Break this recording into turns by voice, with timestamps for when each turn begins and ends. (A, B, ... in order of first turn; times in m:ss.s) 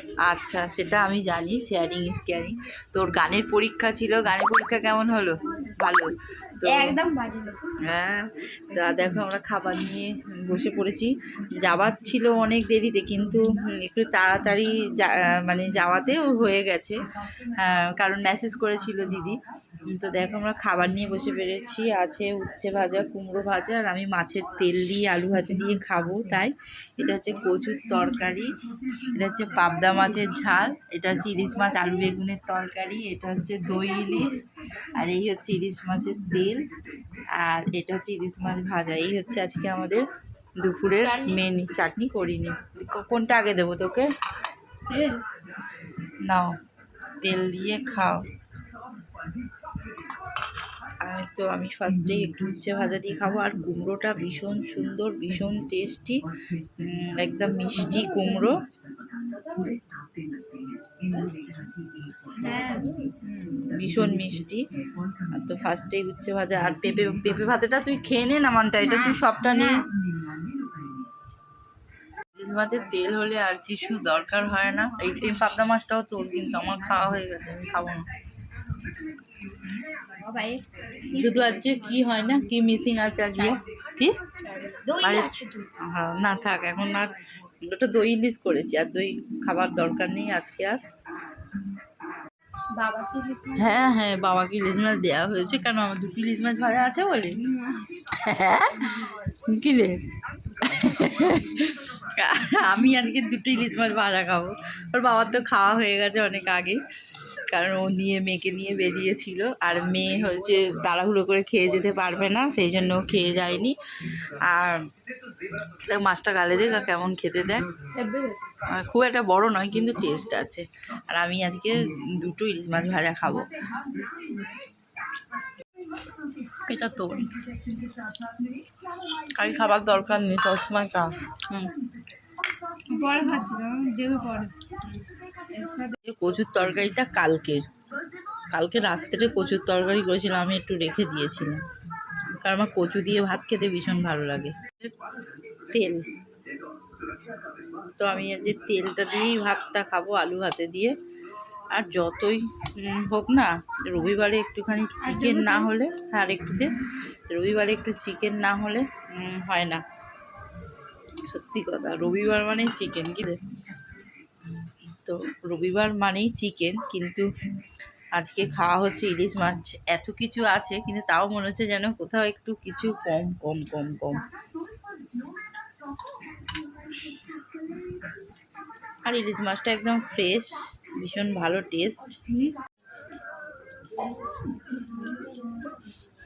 0:00.2-0:07.0 A
0:06.6-0:07.6 B
0:07.9-0:11.1 A
0:11.6-0:17.0 A
0:17.6-0:19.4 A
0:19.9-0:28.5 A
0:29.1-0:34.4 A
0:35.0-0:36.6 A
0:37.4-0:40.0 A
0:40.6-0:44.1 A
0:41.0-0:41.4 B
0:44.9-0:45.2 B
0:46.2-0:46.5 A
0:47.2-0:48.2 A
0:51.0-0:56.2 A
0:56.8-0:58.6 A
1:02.3-1:03.0 B
1:03.2-1:04.6 A
1:05.4-1:09.8 A
1:08.8-1:09.8 B
1:12.4-1:18.0 A
1:20.2-1:22.1 B
1:21.1-1:24.1 A
1:24.4-1:25.7 B
1:25.0-1:27.1 A
1:27.6-1:30.8 A
1:32.8-1:33.9 B
1:33.5-1:37.4 A
1:38.1-1:40.0 A
1:40.6-1:46.8 A
1:47.5-1:54.8 A
1:55.9-1:57.6 A
1:57.9-1:58.4 B
1:58.7-2:03.5 A
2:06.7-2:07.2 A
2:09.4-2:11.7 A
2:12.9-2:14.5 B
2:15.6-2:16.0 B
2:16.0-2:17.6 A
2:18.5-2:21.6 A
2:22.4-2:24.9 A
2:25.7-2:26.0 A
2:28.0-2:31.0 A
2:31.7-2:36.7 A
2:35.0-2:35.7 B
2:37.3-2:39.8 A
2:41.2-2:43.4 A
2:45.0-2:47.3 A
2:48.1-2:54.2 A
2:59.0-3:02.2 A